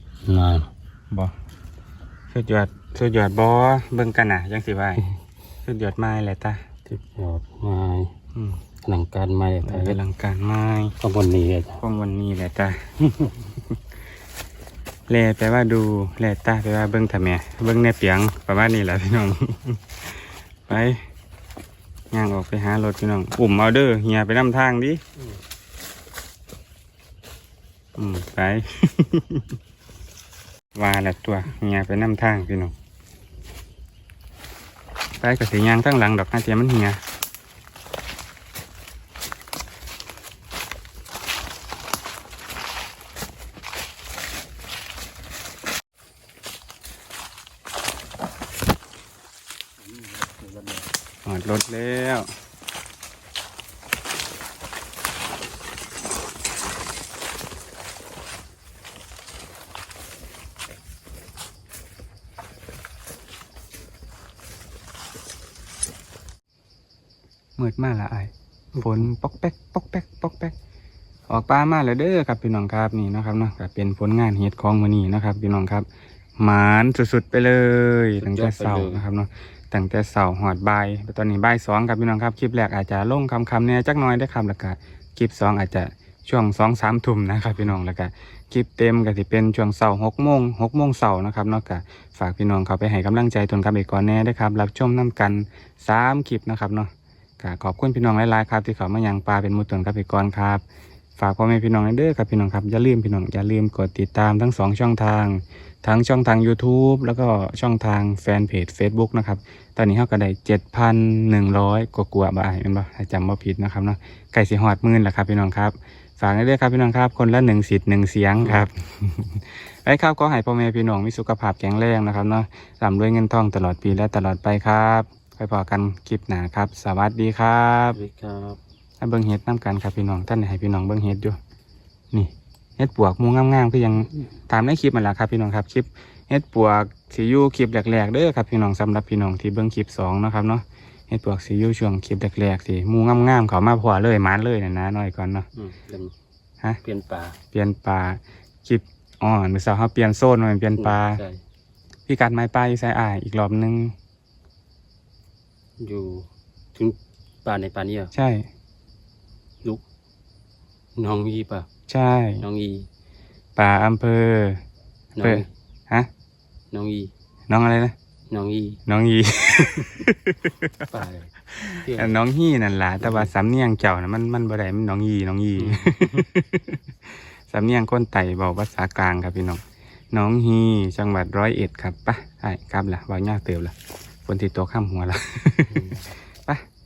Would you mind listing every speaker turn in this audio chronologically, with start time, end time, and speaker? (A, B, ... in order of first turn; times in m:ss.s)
0:00.2-0:00.7 A
0:02.3-0:05.0 B
0:05.6-0:06.6 B
0:06.9-0:08.1 A
0:08.8-0:10.0 A
0:09.6-0:10.9 B
0:11.0-0:11.8 A
0:11.8-0:13.8 B
0:15.1-0:21.0 B
0:22.1-0:25.0 B
0:28.0-0:29.6 B
0:30.7-0:32.7 B
0:35.2-0:37.0 B
0:50.0-0:50.8 A
0:51.2-0:52.3 B
1:07.6-1:10.5 B
1:08.8-1:09.0 A
1:11.3-1:15.8 B
1:16.4-1:40.6 B
1:18.2-1:19.0 A
1:41.2-2:08.0 B
1:58.4-1:58.7 A
2:07.9-2:08.6 A
2:09.0-2:11.4 B
2:12.1-2:25.5 B
2:25.5-2:26.1 A
2:26.8-2:27.4 A
2:27.5-2:31.2 B
2:30.8-2:31.4 A
2:32.1-2:33.9 B
2:35.8-2:38.1 A
2:38.1-2:38.5 B
2:41.0-2:41.7 A
2:41.9-2:42.4 B
2:42.4-2:42.9 A
2:43.6-2:44.6 B
2:45.2-2:45.5 A
2:45.2-2:46.1 B
2:46.7-2:47.1 A
2:47.5-2:47.9 B
2:48.3-2:48.8 A
2:48.8-3:03.7 B
2:50.9-2:52.2 A
2:53.0-2:53.3 A
2:55.6-2:56.2 A
3:04.2-3:06.6 B
3:05.7-3:06.1 A